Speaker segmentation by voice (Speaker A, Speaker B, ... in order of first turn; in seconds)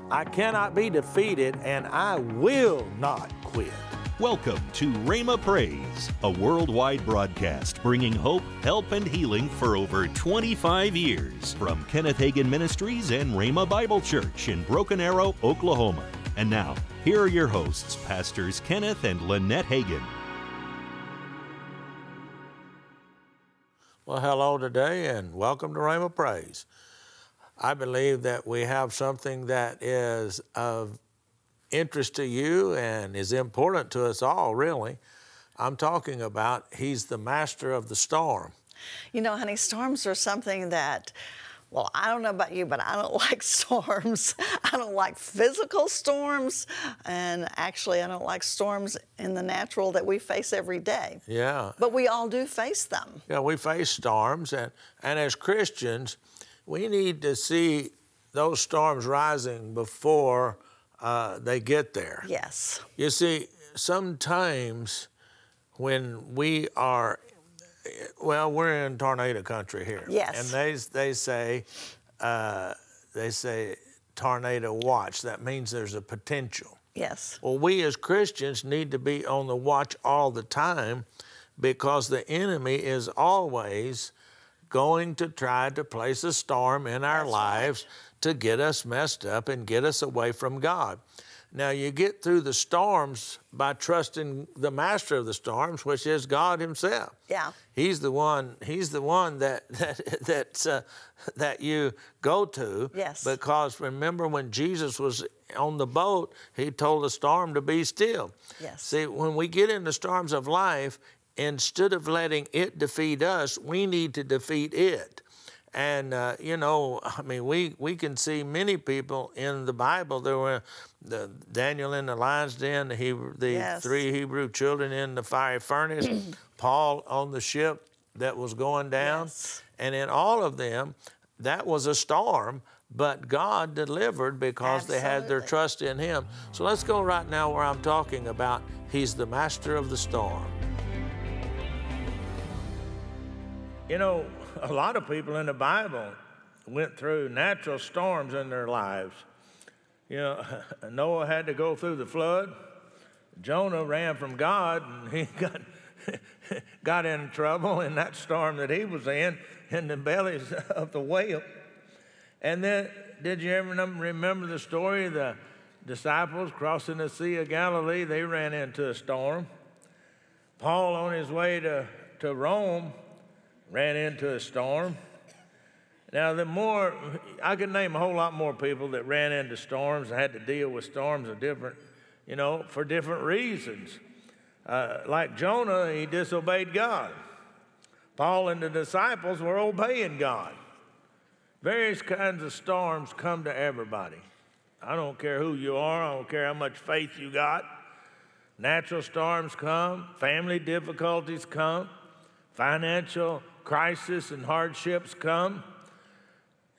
Speaker A: 0.1-3.8, 24.1-26.7, 27.6-31.0, 31.7-35.0, 35.6-38.5, 51.3-51.8, 53.3-62.3, 63.0-65.1, 65.7-67.2, 67.8-71.7, 72.2-76.8, 77.4-81.0, 81.6-84.1, 84.7-91.0, 91.5-97.1, 97.7-140.6, 143.9-149.2, 150.1-152.5, 153.3-161.4, 162.4-169.5, 170.6-172.9, 173.7-175.0, 176.1-184.0, 184.6-187.2, 188.2-190.6, 191.6-194.2, 194.8-197.8, 198.6-201.9, 202.5-205.7
Speaker B: 4.2-20.1
Speaker C: 39.1-41.1, 41.7-51.2, 51.8-53.2, 62.2-62.9, 70.1-70.5, 77.0-77.4, 87.1-87.8, 97.3-97.5, 102.9-103.3, 108.6-109.0, 123.5-124.0, 129.0-129.6, 134.6-135.5